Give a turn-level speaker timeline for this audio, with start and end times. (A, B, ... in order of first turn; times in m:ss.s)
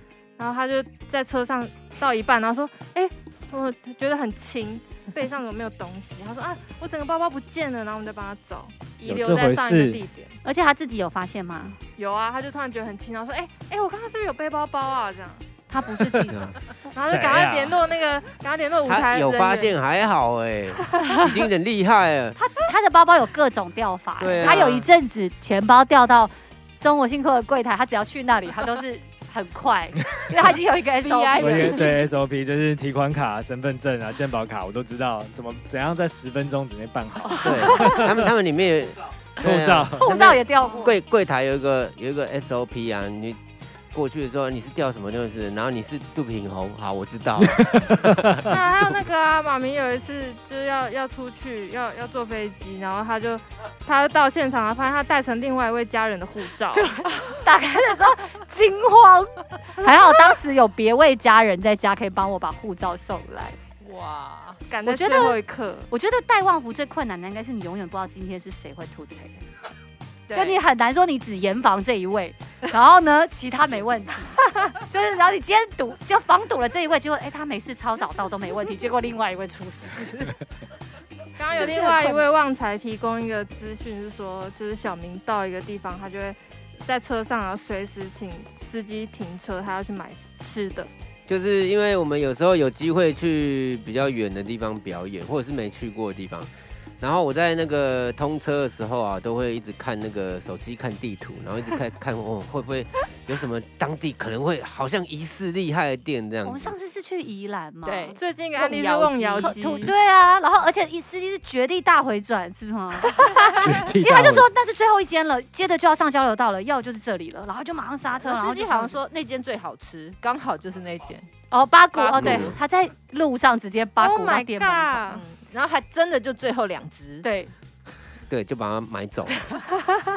0:00.4-0:10.4 A
0:09.0-0:10.0 B
0:10.4-0:11.8 C
0:12.0-0:15.5 A
0:15.7-0:16.5 C
0:16.3-0:16.5 D
0:16.9-0:19.7 A
0:16.9-0:17.8 B
0:18.9-0:22.4 D
0:22.4-0:31.9 C
0:24.2-0:24.9 D
0:31.0-0:32.0 E
0:31.4-0:38.2 B
0:37.3-0:37.9 C
0:37.4-0:43.4 D
0:39.4-0:40.0 B
0:40.0-0:40.9 C
0:43.9-0:48.5 D
0:47.4-0:48.5 B
0:48.4-0:57.0 A
0:56.7-1:03.6 C
1:03.8-1:04.6 E
1:04.7-1:05.9 A
1:04.8-1:05.4 C
1:05.9-1:09.4 C
1:10.3-1:10.6 E
1:10.3-1:20.4 C
1:21.4-1:30.9 A
1:21.5-1:22.2 C
1:31.3-1:36.5 D
1:37.0-1:46.7 D
1:46.4-1:48.2 C
1:47.8-1:49.9 E
1:48.2-1:49.9 A
1:49.4-1:59.0 C
1:53.6-1:54.5 B
1:58.2-2:01.3 E
2:01.5-2:05.1 C
2:02.0-2:02.5 E
2:02.1-2:02.6 D
2:04.0-2:05.2 A
2:05.1-2:07.2 E
2:07.2-2:07.5 C
2:08.3-2:09.5 D